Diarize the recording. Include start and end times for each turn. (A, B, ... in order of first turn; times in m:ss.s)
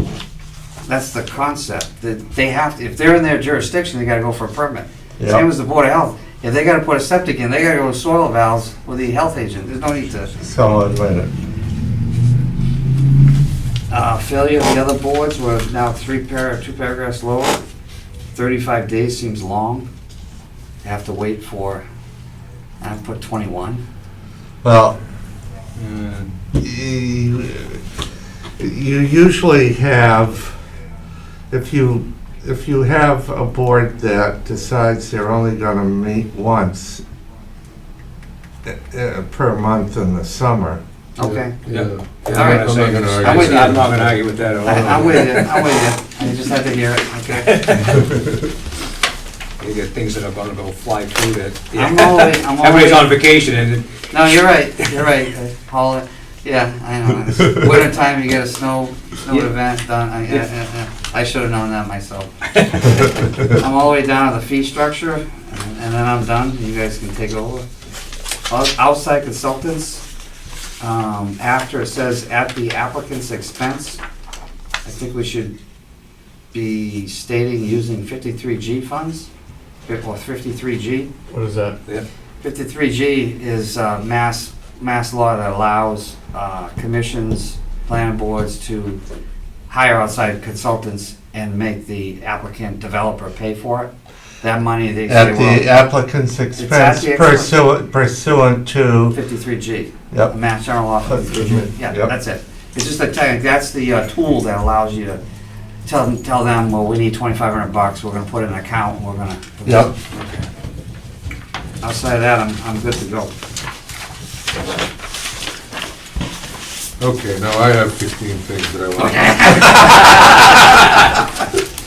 0:00.9-0:10.3 A
0:10.4-0:11.3 B
0:13.9-0:17.6 A
0:18.3-0:19.9 A
0:20.8-0:21.8 A
0:22.8-0:23.8 A
0:24.6-0:25.0 B
0:25.8-0:26.3 C
0:26.6-0:27.8 B
0:28.6-0:30.6 B
0:31.5-0:37.0 B
0:38.6-0:40.8 B
0:41.2-0:41.6 A
0:41.2-0:44.2 D
0:41.7-0:45.8 C
0:42.3-0:43.8 A
0:44.6-0:47.6 A
0:44.7-0:45.3 D
0:47.4-0:48.2 C
0:49.6-0:55.0 C
0:51.8-0:53.1 A
0:54.1-1:02.3 A
1:02.6-1:03.1 C
1:02.8-1:07.6 A
1:08.5-1:10.0 A
1:10.8-1:14.0 A
1:14.8-1:15.6 A
1:16.5-1:19.3 A
1:19.9-1:21.1 A
1:21.3-1:21.7 B
1:22.4-1:29.0 A
1:29.7-1:35.6 A
1:35.1-1:39.2 B
1:36.6-1:37.5 A
1:39.1-1:45.2 A
1:41.0-1:42.1 B
1:45.8-1:49.9 A
1:49.7-1:49.9 B
1:50.1-1:50.5 C
1:51.8-1:53.3 A
1:57.0-2:00.0 D
1:59.0-2:00.1 A